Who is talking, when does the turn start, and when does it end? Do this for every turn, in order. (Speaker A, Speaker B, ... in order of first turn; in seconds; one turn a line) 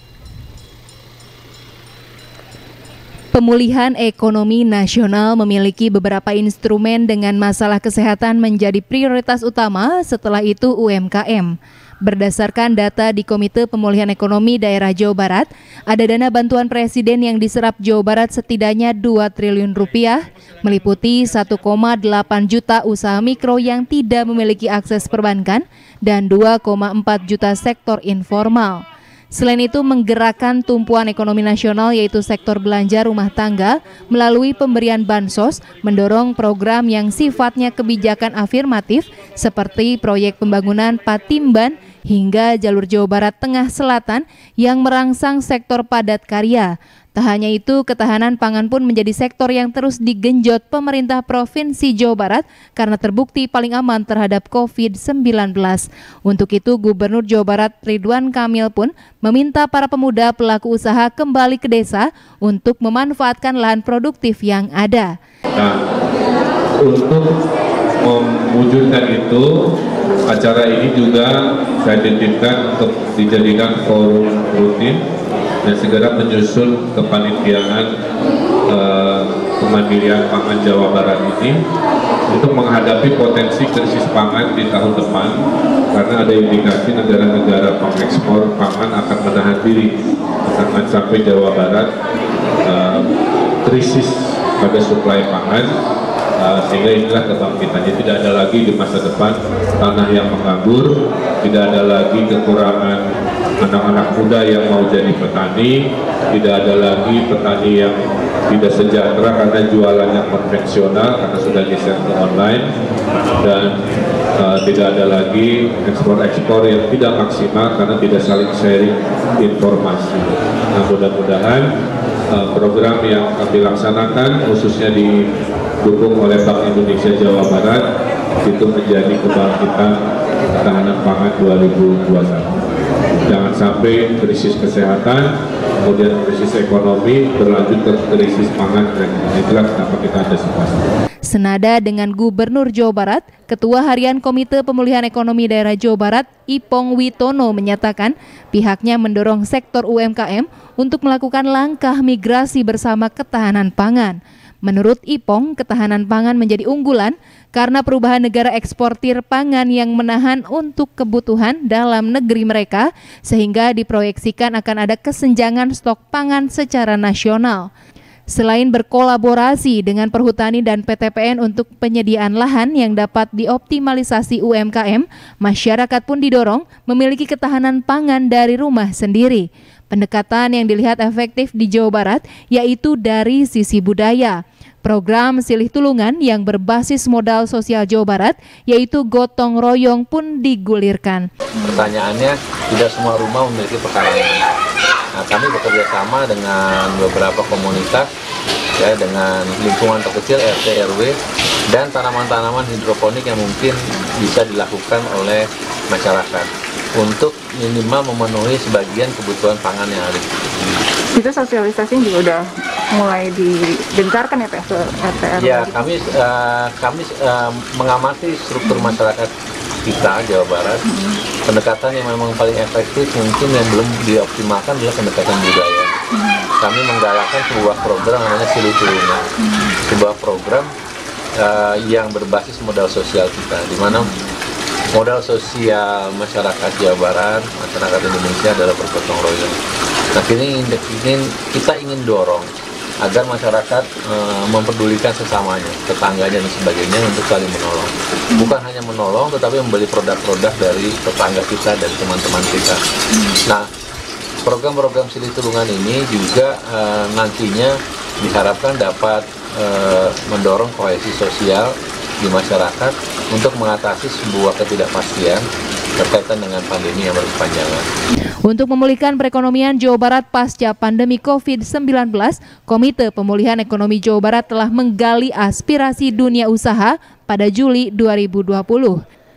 Speaker A: 3.3-65.1
Speaker B: 66.8-67.3
Speaker B: 68.0-69.7
Speaker B: 70.3-75.0
Speaker B: 75.6-77.9
Speaker B: 78.7-81.6
Speaker B: 82.3-91.9
Speaker B: 92.6-93.1
Speaker B: 93.6-95.7
Speaker B: 96.4-103.0
Speaker B: 103.6-112.7
Speaker B: 113.4-113.8
Speaker B: 114.4-121.7
Speaker B: 122.3-125.3
Speaker B: 125.8-127.8
Speaker B: 128.4-130.0
Speaker B: 130.5-132.5
Speaker B: 133.3-135.3
Speaker B: 135.8-140.9
Speaker A: 141.3-167.7
Speaker A: 168.3-191.3
Speaker C: 191.6-194.4
Speaker C: 195.2-198.1
Speaker C: 198.8-201.2
Speaker C: 201.7-210.8
Speaker D: 211.1-215.7
Speaker C: 215.3-219.3
Speaker D: 218.6-219.0
Speaker C: 219.8-220.8
Speaker D: 220.8-221.2
Speaker C: 221.4-225.9
Speaker D: 226.1-226.5
Speaker C: 226.6-229.2
Speaker D: 229.4-229.8
Speaker C: 229.9-230.7
Speaker C: 231.3-234.1
Speaker C: 234.9-239.5
Speaker C: 240.1-242.5
Speaker C: 243.0-252.8
Speaker C: 254.4-265.4
Speaker C: 266.0-267.8
Speaker A: 268.4-279.0